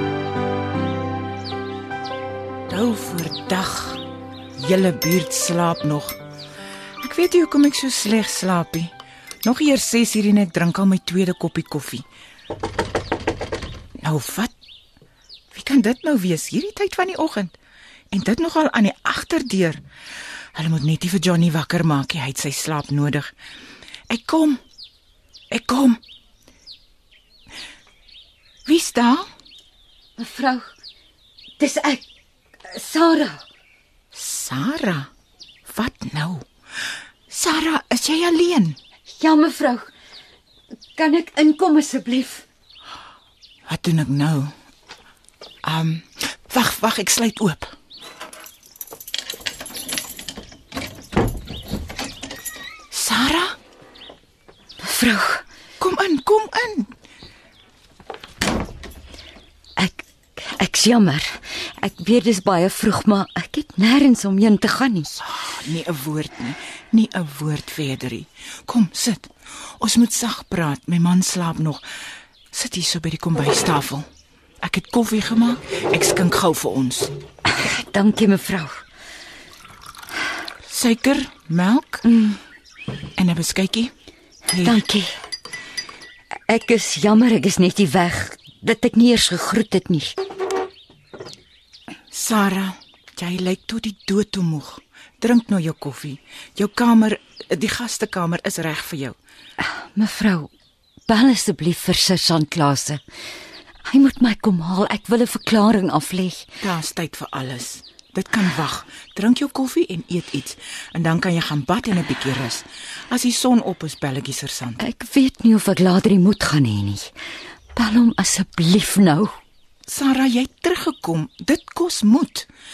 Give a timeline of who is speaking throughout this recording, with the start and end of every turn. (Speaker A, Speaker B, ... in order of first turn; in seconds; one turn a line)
Speaker A: 2.7-4.0
Speaker A: 4.5-6.2
Speaker A: 7.0-8.9
Speaker A: 9.4-12.1
Speaker A: 14.0-14.5
Speaker A: 15.5-17.5
Speaker A: 18.1-19.8
Speaker A: 20.5-23.3
Speaker A: 24.1-24.6
Speaker A: 25.5-26.0
Speaker A: 28.6-29.3
Speaker B: 30.2-30.6
Speaker B: 31.6-32.0
Speaker B: 32.7-33.4
Speaker A: 34.1-35.1
Speaker A: 35.7-36.5
Speaker A: 37.3-38.8
Speaker B: 39.1-39.9
Speaker B: 41.0-42.4
Speaker A: 43.7-44.5
Speaker A: 45.6-47.7
Speaker A: 52.9-53.5
Speaker B: 54.8-55.4
Speaker A: 55.8-56.9
Speaker B: 59.8-65.1
Speaker A: 65.2-71.8
Speaker A: 72.5-74.0
Speaker A: 74.6-77.1
Speaker B: 77.5-78.8
Speaker A: 80.7-82.0
Speaker B: 82.1-82.4
Speaker A: 83.2-83.9
Speaker B: 84.6-85.1
Speaker B: 86.5-90.1
Speaker A: 92.1-99.2
Speaker B: 99.6-100.5
Speaker B: 101.1-103.0
Speaker B: 103.9-106.4
Speaker A: 106.6-114.8
Speaker B: 114.8-117.1
Speaker B: 117.7-119.3
Speaker A: 119.9-122.5